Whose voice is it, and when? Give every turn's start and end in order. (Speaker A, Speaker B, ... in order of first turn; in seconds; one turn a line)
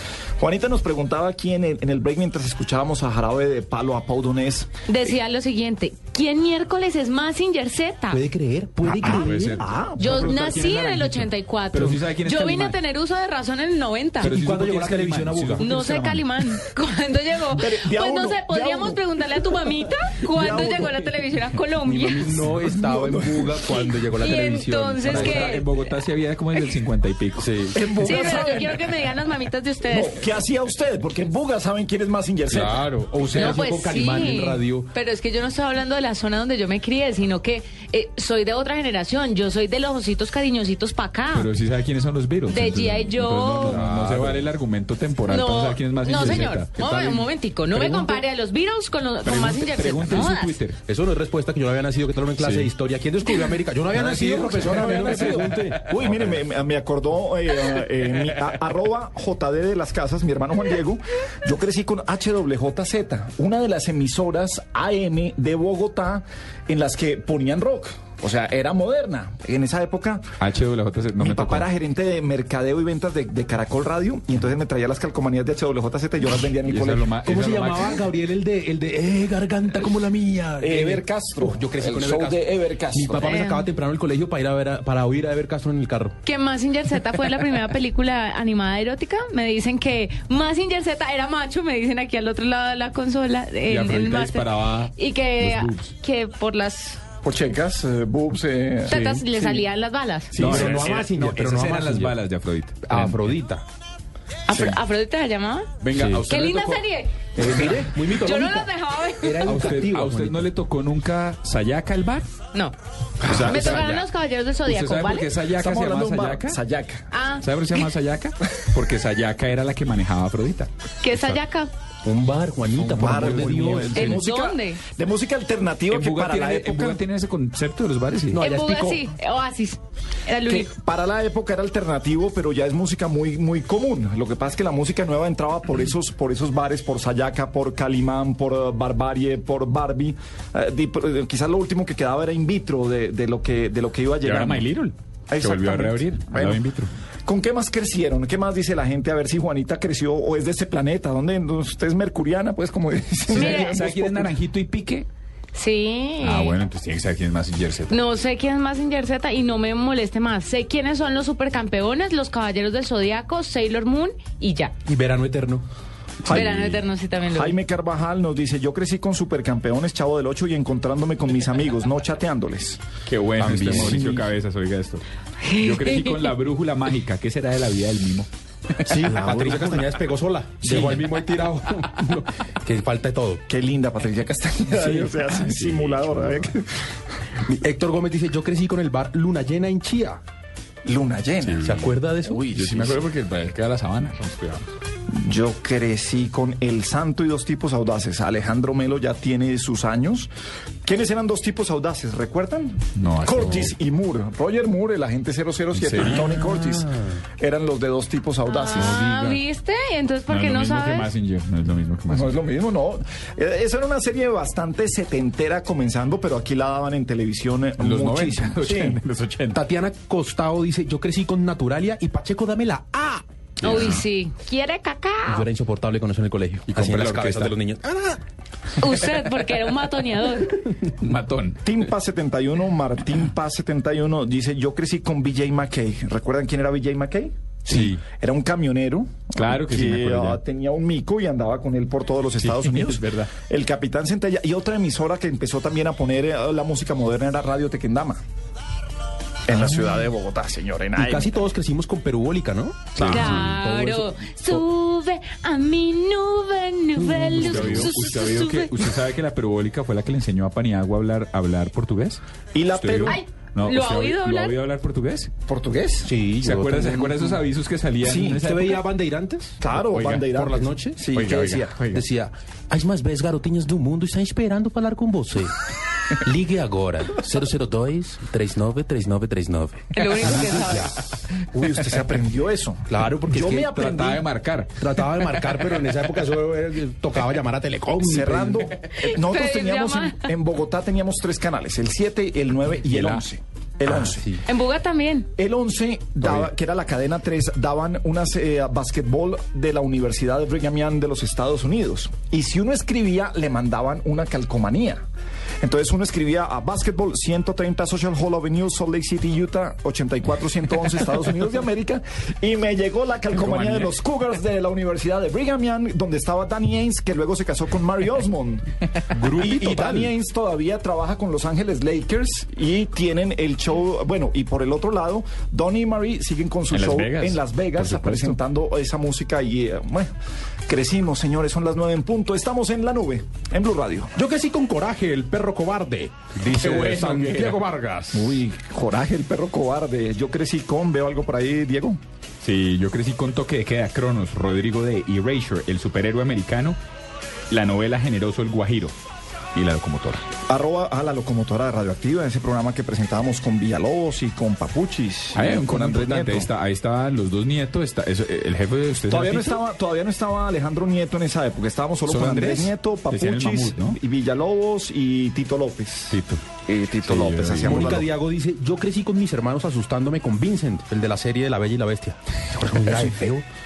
Speaker A: 0.4-4.7
Speaker B: 4.9-8.2
Speaker C: 8.1-9.6
Speaker A: 8.8-10.4
Speaker D: 9.0-12.8
Speaker B: 10.0-14.3
Speaker D: 14.2-15.9
Speaker C: 14.2-16.2
Speaker B: 15.6-22.4
Speaker A: 17.5-19.2
Speaker A: 20.2-21.1
Speaker C: 21.8-25.6
Speaker A: 22.3-23.8
Speaker B: 23.6-25.8
Speaker D: 25.0-27.6
Speaker C: 27.4-28.2
Speaker A: 27.7-28.8
Speaker B: 28.0-30.2
Speaker A: 29.8-33.6
Speaker C: 32.5-34.9
Speaker B: 33.3-41.5
Speaker D: 41.3-47.0
Speaker B: 42.5-43.8
Speaker C: 43.5-44.5
Speaker B: 45.3-50.6
Speaker C: 46.1-48.2
Speaker D: 49.2-50.8
Speaker C: 50.9-56.4
Speaker D: 52.4-52.7
Speaker D: 53.9-55.6
Speaker A: 54.1-70.3
Speaker D: 70.4-71.7
Speaker A: 71.2-77.1
Speaker D: 76.6-78.0
Speaker C: 77.2-86.2
Speaker A: 80.6-83.4
Speaker B: 83.2-83.7
Speaker B: 86.2-97.0
Speaker D: 93.7-95.9
Speaker A: 97.2-99.6
Speaker B: 98.9-100.3
Speaker C: 98.9-99.2
Speaker A: 100.3-101.0
Speaker D: 100.3-103.3
Speaker C: 100.3-102.2
Speaker C: 102.8-103.6
Speaker B: 104.5-105.7
Speaker A: 104.5-104.8
Speaker D: 105.8-106.8
Speaker C: 105.9-106.2
Speaker B: 106.2-107.3
Speaker C: 107.4-108.7
Speaker D: 107.5-107.8
Speaker B: 108.1-109.6
Speaker C: 109.2-110.5
Speaker D: 109.4-112.3
Speaker C: 113.2-113.8
Speaker D: 113.2-114.0
Speaker B: 113.5-115.3
Speaker D: 114.7-116.6
Speaker A: 115.5-117.1
Speaker B: 117.1-117.8
Speaker D: 117.4-121.4
Speaker B: 121.0-121.7
Speaker C: 122.0-124.2
Speaker A: 122.8-127.0
Speaker D: 123.0-123.5
Speaker B: 123.9-124.8
Speaker D: 125.9-128.4
Speaker C: 128.3-129.0
Speaker B: 128.4-130.7
Speaker A: 130.4-144.7
Speaker D: 144.2-146.9
Speaker A: 145.3-146.7
Speaker A: 147.2-154.3
Speaker D: 153.3-155.1
Speaker B: 153.3-153.8
Speaker B: 155.5-156.6
Speaker D: 156.2-158.0
Speaker B: 157.9-164.7
Speaker C: 164.8-165.7
Speaker A: 166.2-172.8
Speaker B: 166.3-167.6
Speaker D: 173.1-179.2
Speaker C: 173.4-174.3
Speaker B: 175.4-176.3
Speaker A: 178.9-179.9
Speaker C: 178.9-183.4
Speaker A: 180.6-181.0
Speaker D: 180.7-181.0
Speaker A: 183.5-186.9
Speaker D: 184.7-186.5
Speaker C: 187.4-190.2
Speaker A: 190.8-191.7
Speaker D: 191.4-194.6
Speaker C: 191.6-193.1
Speaker A: 195.1-200.3
Speaker A: 200.8-209.0
Speaker D: 202.9-203.7
Speaker D: 205.7-206.3
Speaker C: 206.0-207.1
Speaker B: 208.4-211.1
Speaker C: 208.7-209.4
Speaker D: 210.3-212.3
Speaker A: 212.1-219.0
Speaker D: 217.8-219.6
Speaker C: 219.5-223.9
Speaker D: 223.6-224.0
Speaker B: 223.6-225.5
Speaker C: 225.3-228.2
Speaker D: 226.7-227.6
Speaker B: 228.8-230.7
Speaker D: 231.0-231.6
Speaker A: 231.6-248.2
Speaker D: 237.7-238.0
Speaker D: 239.3-240.4
Speaker D: 242.4-243.3
Speaker A: 249.4-251.4
Speaker C: 250.9-254.6
Speaker D: 252.9-253.6
Speaker B: 253.1-258.8
Speaker C: 256.9-257.9
Speaker D: 257.4-265.3
Speaker A: 262.5-263.2
Speaker B: 263.0-264.6
Speaker A: 265.5-266.1
Speaker C: 266.0-267.4
Speaker D: 266.4-268.8
Speaker A: 268.0-268.4
Speaker C: 268.4-271.1
Speaker A: 269.6-271.8
Speaker D: 271.1-272.0
Speaker C: 271.9-281.1
Speaker B: 279.9-281.1
Speaker A: 281.5-284.2
Speaker C: 282.9-284.0
Speaker D: 283.4-285.7
Speaker C: 284.8-288.7
Speaker A: 288.0-294.3
Speaker B: 289.0-290.3
Speaker D: 292.9-293.2
Speaker C: 293.8-294.4
Speaker B: 294.4-295.3
Speaker A: 295.4-305.0
Speaker C: 296.2-296.5
Speaker A: 305.6-318.6
Speaker D: 313.3-313.9
Speaker D: 319.1-320.1
Speaker A: 319.3-330.1
Speaker D: 326.7-328.4
Speaker A: 330.7-334.1
Speaker C: 334.1-338.4
Speaker D: 336.3-337.6
Speaker A: 338.1-342.0
Speaker D: 342.4-346.8
Speaker D: 347.5-348.9
Speaker D: 349.5-350.2
Speaker A: 350.5-356.5
Speaker D: 355.3-359.6
Speaker A: 359.1-368.1
Speaker D: 362.1-364.0
Speaker D: 366.1-366.4
Speaker D: 367.0-368.0
Speaker C: 367.5-373.5
Speaker A: 372.9-373.2